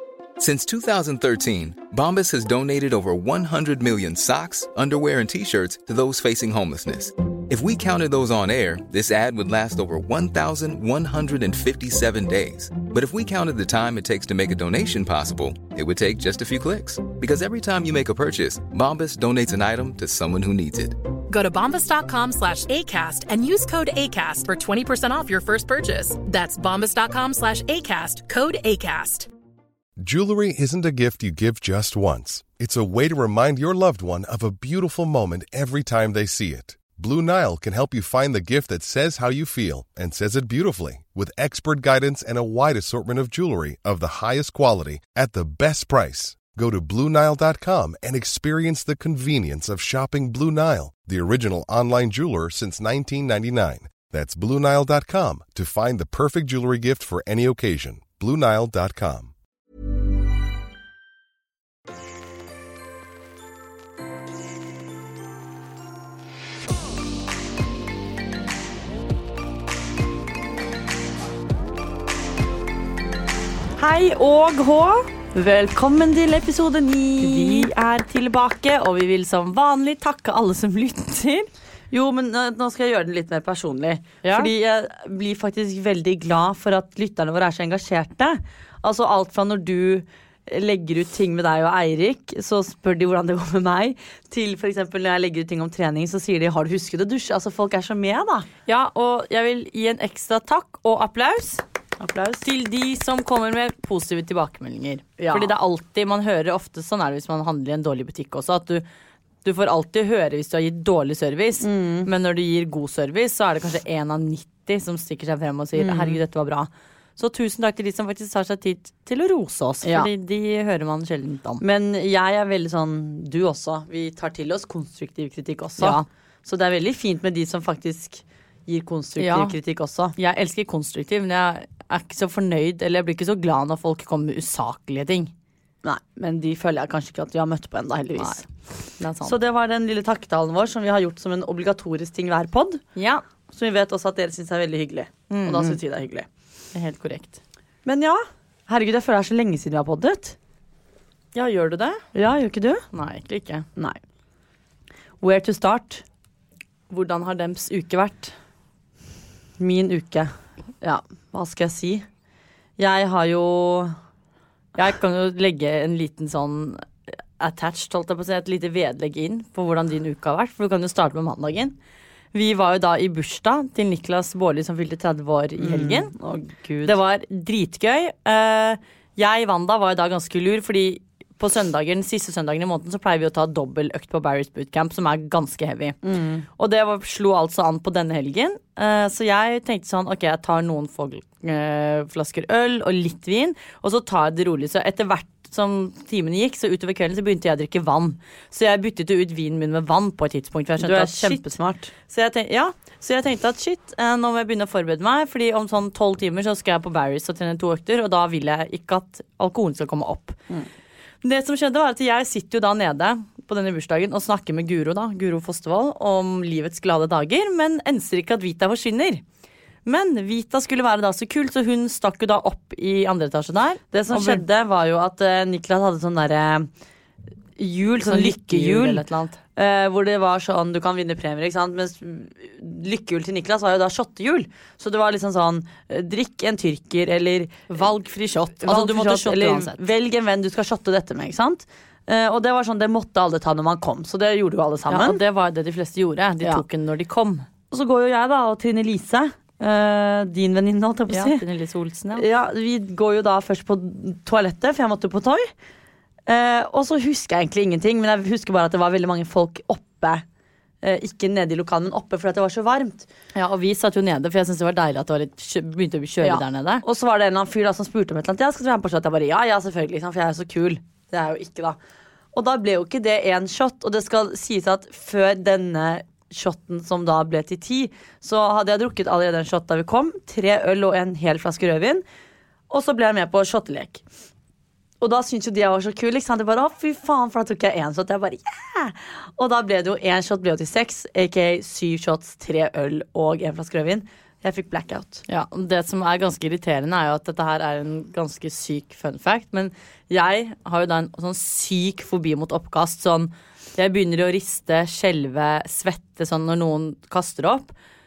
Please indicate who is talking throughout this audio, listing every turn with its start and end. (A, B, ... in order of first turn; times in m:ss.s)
0:00.4-0:21.1 A
0:21.3-0:29.3 B
0:30.0-0:59.3 C
1:13.8-1:15.1 D
1:15.3-1:17.7 E
1:17.2-1:21.5 D
1:21.9-1:38.5 E
1:24.2-1:24.5 D
1:38.7-1:41.6 D
1:42.0-1:42.4 E
1:42.4-1:48.8 D
1:45.2-1:45.5 E
1:49.4-2:01.6 D
1:51.6-1:52.1 E
1:55.8-1:56.2 E
1:59.8-2:00.1 E
2:01.6-2:10.2 E
2:05.8-2:06.1 D
2:09.2-2:09.6 D
2:10.2-2:15.3 D
2:15.8-2:18.5 E
2:18.2-2:18.4 D
2:19.0-2:19.4 D
2:19.2-2:22.8 E
2:23.0-2:23.2 D
2:23.5-2:26.3 E
2:25.3-2:25.8 D
2:26.7-2:27.4 D
2:27.9-2:30.4 E
2:31.3-2:32.0 D
2:32.2-2:32.8 E
2:32.9-2:33.7 D
2:35.2-2:36.0 E
2:36.9-2:38.4 D
2:39.6-2:42.0 E
2:42.8-2:44.0 E
2:44.8-2:51.8 D
2:52.3-2:56.1 D
2:55.6-2:57.0 E
2:56.8-3:06.0 D
3:06.0-3:06.5 E
3:06.6-3:21.5 D
3:20.8-3:21.9 E
3:22.0-3:30.4 D
3:31.2-3:39.2 D
3:39.8-3:44.4 D
3:43.9-3:46.7 E
3:47.6-3:57.9 E
3:48.0-3:49.4 D
3:57.7-3:59.8 D
3:58.6-4:05.2 E
4:04.9-4:07.5 D
4:07.7-4:11.4 E
4:11.1-4:12.2 D
4:12.2-4:15.5 E
4:16.3-4:20.2 E
4:20.8-4:23.1 E
4:23.4-4:26.8 D
4:26.2-4:31.8 E
4:32.3-4:42.0 E
4:42.7-4:44.0 E
4:45.0-4:55.2 E
4:55.3-5:07.7 D